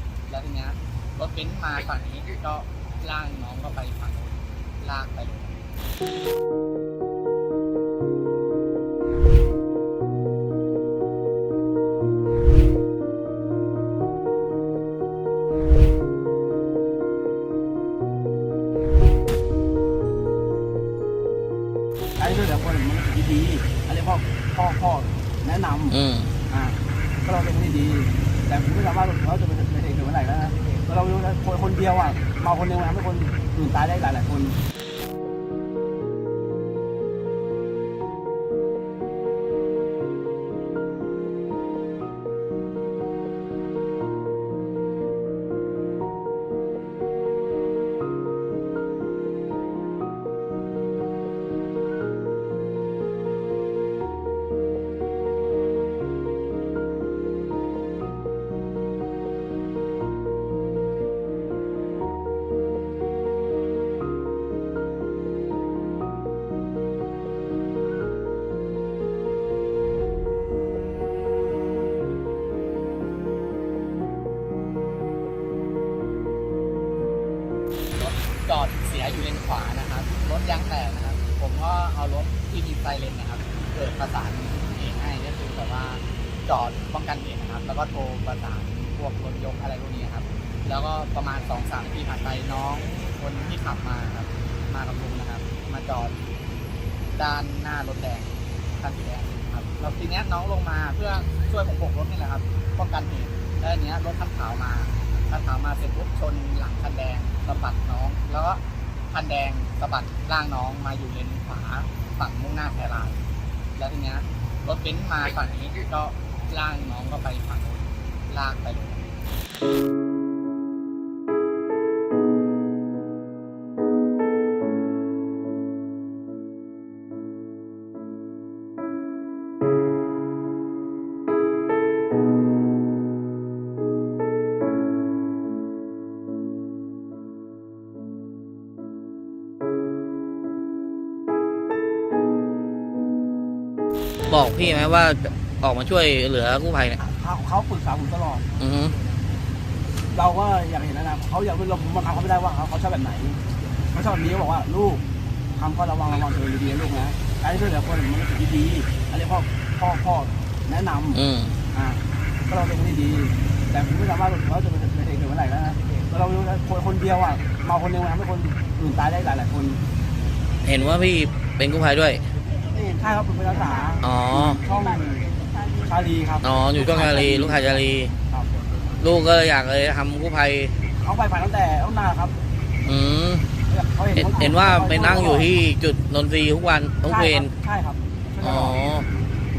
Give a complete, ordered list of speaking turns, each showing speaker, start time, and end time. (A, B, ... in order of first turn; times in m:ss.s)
0:00.3-0:05.6 A
0:22.2-0:34.6 B
0:25.9-0:26.3 C
1:18.0-1:36.2 A
1:37.2-1:53.2 A
1:53.8-1:59.1 A
2:24.3-2:27.0 C
2:27.0-2:28.4 B
2:28.6-2:29.0 C
2:30.1-2:35.0 B
2:35.6-2:49.8 B
2:41.1-2:41.6 C
2:50.6-2:52.2 C
2:52.8-2:55.2 B
2:54.0-2:54.6 C
2:55.8-2:58.5 B
2:56.4-2:58.1 C
2:59.0-3:00.7 C
3:01.0-3:02.4 B
3:02.8-3:03.5 C
3:03.7-3:05.5 B
3:04.1-3:07.5 C
3:07.0-3:08.8 B
3:08.4-3:09.1 C